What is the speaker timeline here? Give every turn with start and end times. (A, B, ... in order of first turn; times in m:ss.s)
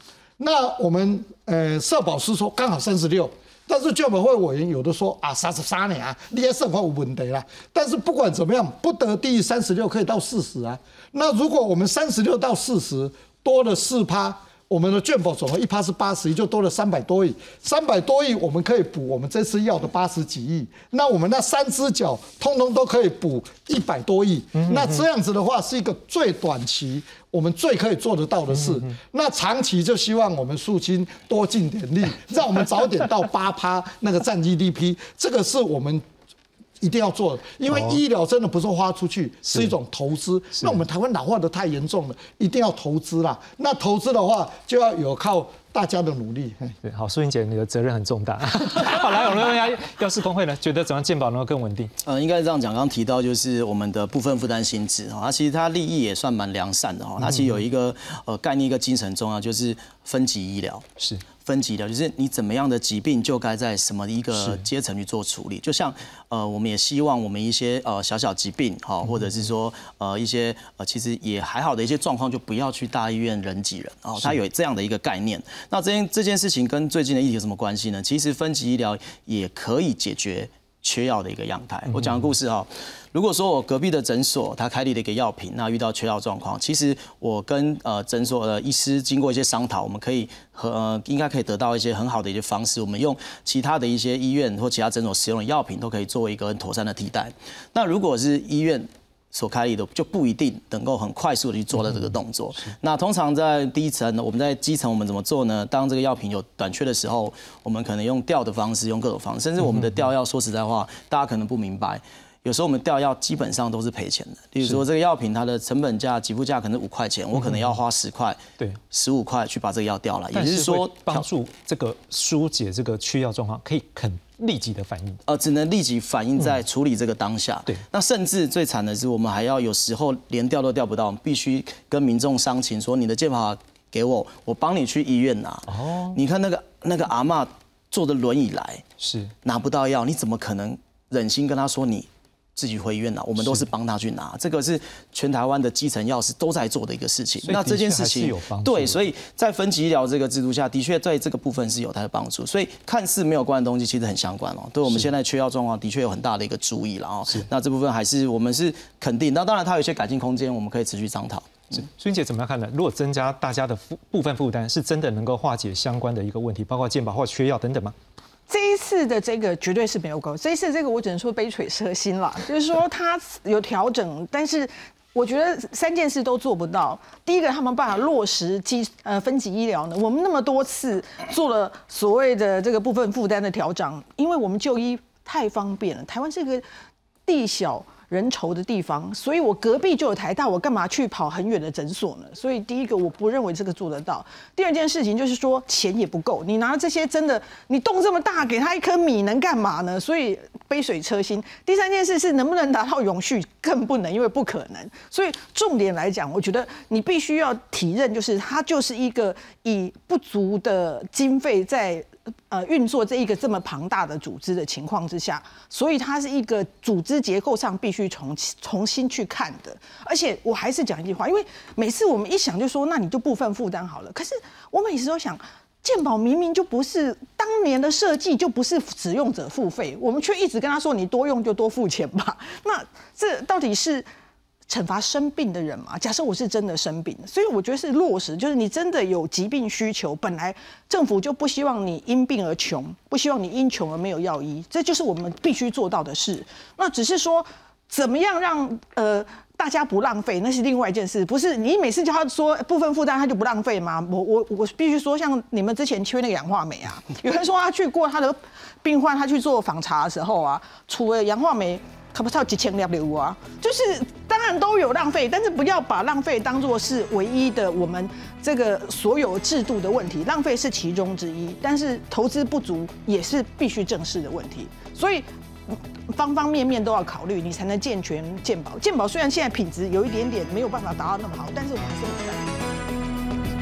0:00.4-0:36.0 A
0:24.6-0:25.0 B
0:28.5-0:28.9 B
0:36.8-0:46.7 A
0:37.7-0:38.0 B
0:39.5-0:39.7 B
0:46.8-0:51.9 B
0:52.0-1:00.9 C
0:57.2-0:57.6 B
1:01.4-1:58.4 C
1:04.3-1:04.6 B
1:09.0-1:09.4 B
1:21.9-1:22.3 B
1:41.8-1:42.7 B
1:49.6-1:50.0 B
1:57.3-1:57.7 B
1:58.9-2:01.2 C
2:00.3-2:05.2 B
2:05.3-2:18.8 C
2:15.7-2:16.2 B
2:19.0-2:19.3 B
2:19.4-2:41.7 C
2:27.4-2:29.0 B
2:41.7-2:47.9 B
2:48.5-3:06.6 D
3:07.2-3:54.1 D
3:54.7-4:42.6 D